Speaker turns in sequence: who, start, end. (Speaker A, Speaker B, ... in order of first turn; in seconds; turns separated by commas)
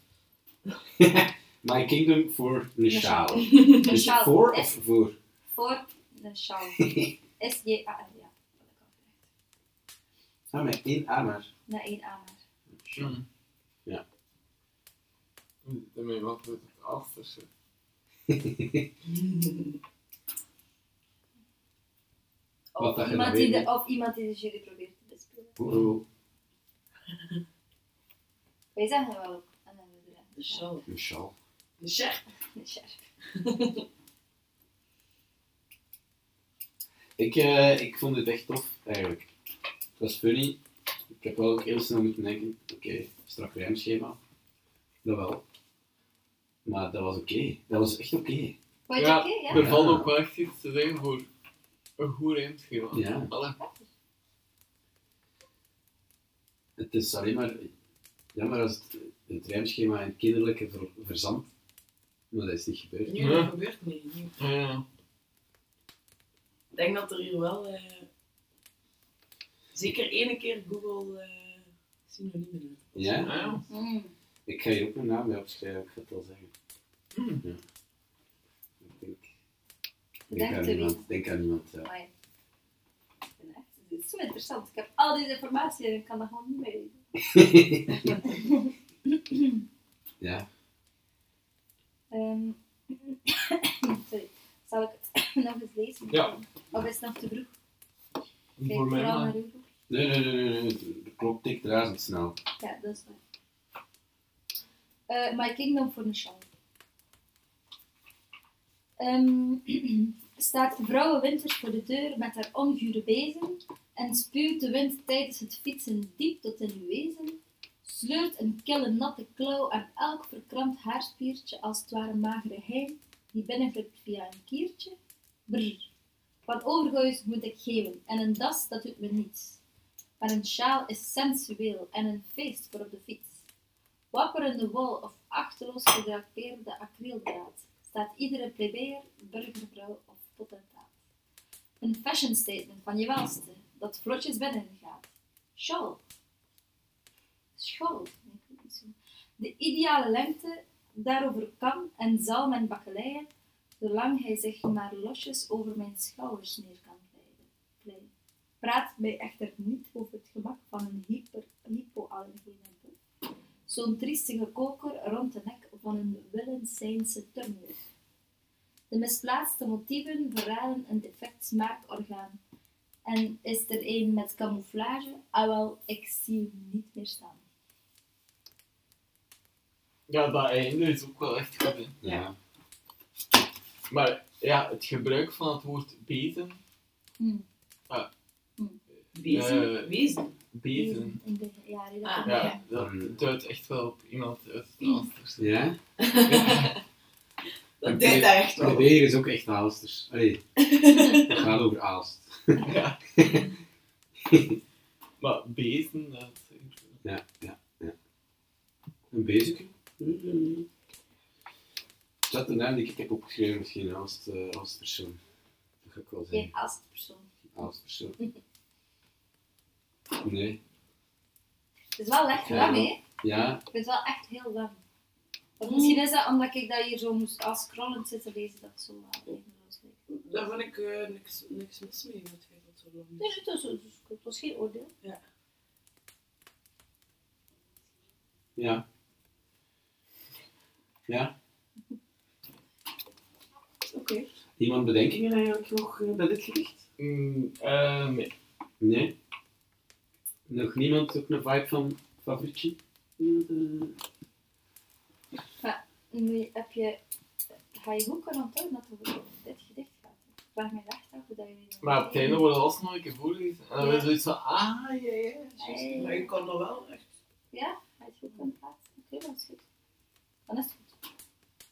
Speaker A: 1.0-5.2, Speaker B: 2.9-4.8, Speaker C: 3.5-3.9, Speaker B: 5.5-6.8, Speaker A: 6.8-7.1, Speaker B: 7.4-9.2, Speaker A: 10.5-11.5, Speaker B: 11.7-12.4, Speaker A: 12.7-13.2, Speaker D: 13.0-13.2, Speaker D: 15.7-17.5, Speaker A: 18.3-18.9, Speaker C: 19.1-19.8, Speaker B: 22.8-25.6, Speaker A: 22.8-23.7, Speaker A: 25.6-26.0, Speaker B: 28.8-30.7, Speaker C: 30.4-30.9, Speaker A: 30.9-31.3, Speaker C: 31.8-32.2, Speaker B: 32.5-33.0, Speaker C: 33.3-33.8, Speaker A: 37.2-39.3, Speaker A: 40.0-40.6, Speaker A: 41.1-44.2, Speaker A: 45.0-45.4, Speaker A: 46.6-48.5, Speaker B: 48.9-49.6, Speaker D: 49.0-51.3, Speaker A: 49.5-50.1, Speaker D: 52.0-53.6, Speaker A: 52.9-53.3, Speaker B: 53.6-53.9, Speaker A: 56.8-57.7, Speaker A: 58.3-61.5, Speaker A: 62.3-63.2, Speaker C: 63.0-64.3, Speaker D: 63.2-63.5, Speaker D: 64.4-64.8, Speaker C: 66.7-68.1, Speaker C: 69.7-73.7, Speaker A: 72.9-73.3, Speaker D: 73.2-73.7, Speaker B: 73.7-74.1, Speaker A: 74.5-76.5, Speaker D: 77.1-77.4, Speaker A: 78.8-79.3, Speaker B: 80.3-81.1, Speaker A: 80.3-81.9, Speaker B: 81.8-82.1, Speaker B: 83.4-87.0, Speaker A: 87.3-88.1, Speaker B: 88.2-89.6, Speaker B: 92.1-97.5, Speaker D: 98.6-99.3, Speaker B: 98.6-99.7, Speaker A: 99.9-102.4, Speaker B: 102.6-103.2, Speaker B: 105.1-106.5, Speaker B: 109.0-125.0, Speaker B: 125.5-125.9, Speaker B: 126.5-129.6, Speaker B: 130.2-133.4, Speaker B: 134.1-140.9, Speaker B: 141.8-145.1, Speaker B: 145.6-146.0, Speaker B: 147.6-153.3, Speaker B: 153.8-158.1, Speaker B: 158.6-162.9, Speaker B: 163.7-167.8, Speaker B: 168.9-172.4, Speaker B: 173.1-177.4, Speaker D: 180.1-182.0, Speaker A: 182.0-182.3, Speaker D: 183.9-186.6, Speaker B: 187.2-187.4, Speaker C: 189.1-190.3, Speaker D: 189.3-190.0, Speaker D: 190.5-191.2, Speaker B: 190.7-192.6, Speaker C: 192.0-192.5, Speaker D: 192.2-195.5, Speaker A: 192.7-193.2, Speaker A: 195.4-195.8, Speaker C: 196.0-196.7, Speaker D: 196.2-196.8, Speaker C: 197.8-198.9, Speaker A: 197.8-200.4, Speaker C: 200.6-201.4, Speaker A: 201.3-202.6, Speaker D: 202.6-203.0, Speaker A: 203.2-203.5, Speaker A: 204.2-204.6, Speaker D: 205.2-207.0, Speaker A: 207.0-207.9, Speaker A: 209.1-210.7, Speaker A: 212.3-215.2, Speaker A: 215.8-216.5, Speaker B: 216.3-217.3, Speaker A: 217.6-218.2, Speaker A: 220.2-220.6, Speaker B: 221.9-223.0, Speaker A: 222.3-223.6, Speaker B: 223.6-224.8, Speaker B: 225.6-230.0, Speaker C: 225.6-226.0, Speaker C: 230.1-233.3, Speaker B: 233.2-234.9, Speaker A: 238.6-238.8, Speaker A: 241.1-241.3, Speaker C: 243.9-244.3, Speaker A: 244.6-246.8, Speaker D: 247.0-248.3, Speaker A: 248.8-249.1, Speaker A: 250.5-254.0, Speaker B: 255.6-257.0, Speaker B: 257.7-262.4, Speaker D: 261.8-265.3, Speaker B: 263.8-264.1, Speaker C: 265.3-267.1, Speaker B: 265.6-266.4, Speaker B: 267.5-269.6, Speaker B: 270.5-270.9